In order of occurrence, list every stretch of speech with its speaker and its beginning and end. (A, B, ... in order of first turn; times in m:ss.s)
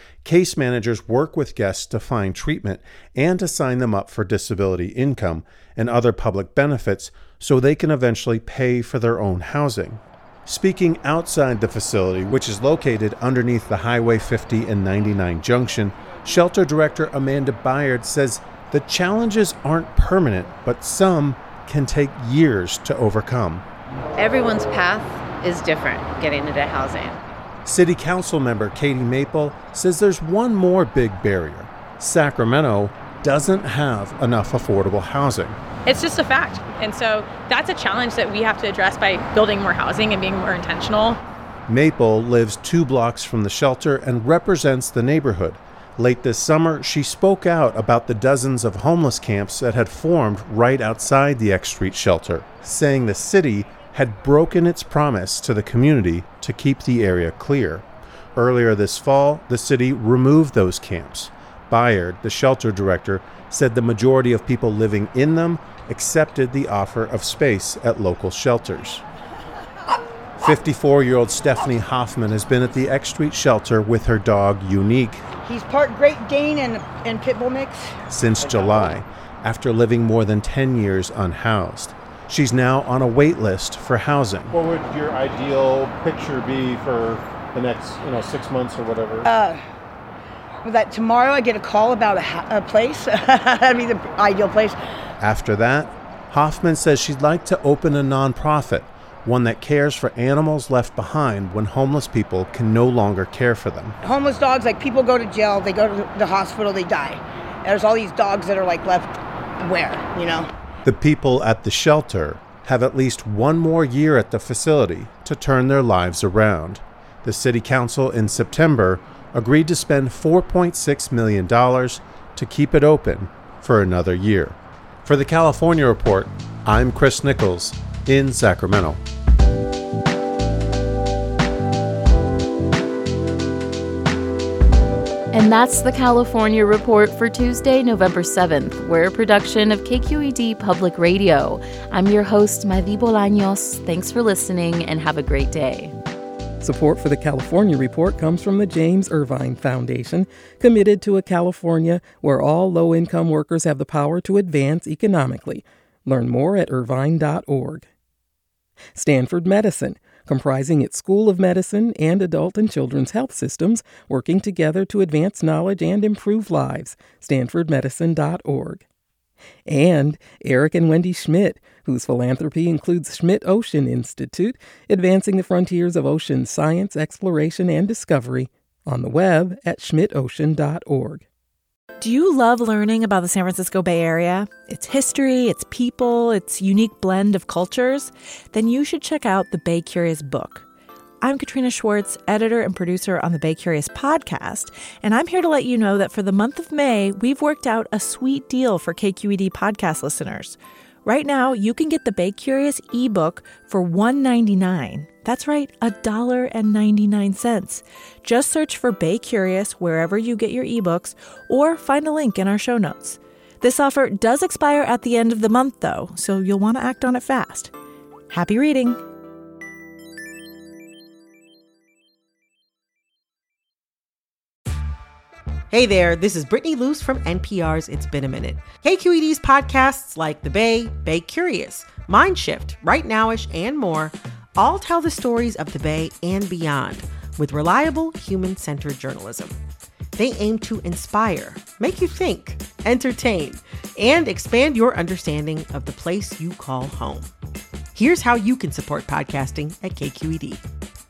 0:00.2-0:23.6 A
0:24.2-0:27.2 B
0:27.6-0:35.6 A
0:35.9-0:41.2 C
0:41.7-0:57.8 A
0:58.4-1:09.0 A
1:10.4-1:15.2 A
1:15.4-1:17.9 D
1:18.1-1:24.5 A
1:24.5-1:29.3 E
1:29.3-1:29.6 D
1:30.7-1:34.8 D
1:35.2-1:44.0 A
1:44.0-1:49.1 D
1:49.6-1:50.5 D
1:50.8-2:09.0 A
2:15.3-2:25.9 F
2:26.6-2:37.8 G
2:39.0-2:48.8 G
2:49.7-3:01.2 G
3:02.0-3:10.6 H
3:11.2-3:37.7 H
3:38.3-3:39.0 H
3:45.7-3:59.6 I
4:00.2-4:07.3 I
4:08.0-4:10.6 I